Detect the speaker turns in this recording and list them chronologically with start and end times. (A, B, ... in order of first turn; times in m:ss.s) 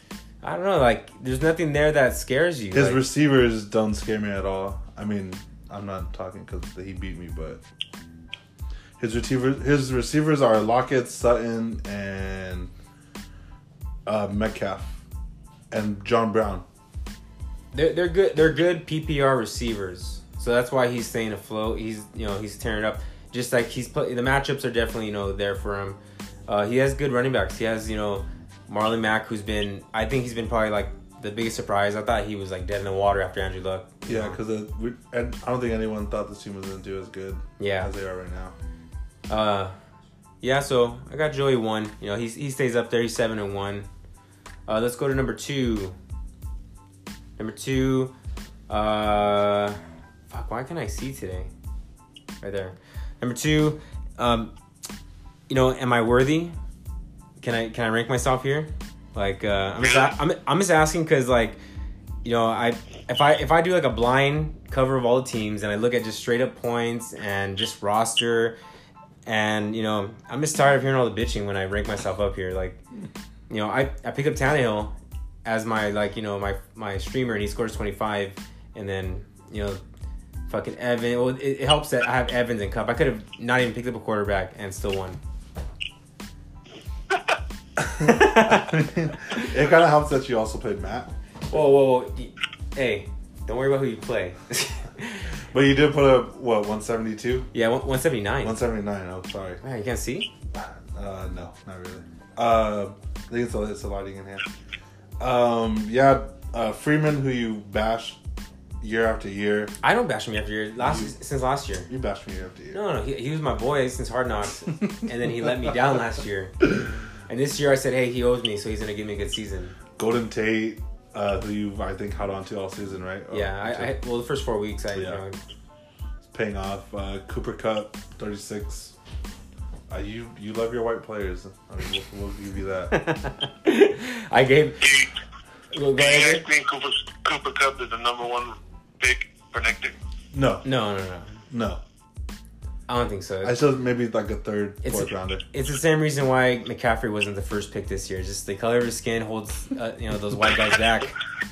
0:00.4-0:03.0 A
0:02.7-0:07.6 B
0:09.0-0:12.7 B
0:14.0-0:15.0 B
0:15.7-0:16.6 B
0:17.7-0:34.4 A
0:34.1-0:38.5 B
0:37.6-0:37.9 A
0:39.3-0:39.7 A
0:40.4-0:43.9 A
0:44.7-0:46.0 A
0:47.4-0:48.1 A
0:48.7-0:51.5 A
0:52.4-0:54.5 A
0:55.5-0:56.6 A
0:57.4-1:01.6 A
0:59.8-1:00.1 C
1:02.2-1:08.6 A
1:09.2-1:12.8 A
1:13.5-1:14.9 A
1:15.4-1:19.8 A
1:20.5-1:25.2 A
1:27.8-1:31.1 B
1:28.0-1:28.7 A
1:31.5-1:35.3 A
1:35.5-1:37.5 B
1:37.5-1:38.6 A
1:38.4-1:39.6 B
1:39.6-1:40.3 A
1:40.5-1:44.4 B
1:45.2-1:48.2 B
1:48.8-1:49.7 B
1:49.8-1:51.9 A
1:50.8-1:51.1 B
1:51.9-1:52.8 B
1:52.7-1:56.7 A
1:57.3-1:59.8 A
2:00.0-2:03.9 B
2:03.3-2:05.4 A
2:04.9-2:05.2 B
2:06.3-2:08.9 B
2:09.9-2:12.9 B
2:12.9-2:14.9 A
2:14.8-2:15.1 C
2:15.7-2:16.4 A
2:16.0-2:20.0 C
2:20.3-2:20.6 B
2:20.6-2:21.4 A
2:21.5-2:21.8 B
2:22.9-2:23.6 A
2:23.4-2:25.4 B
2:24.8-2:31.1 A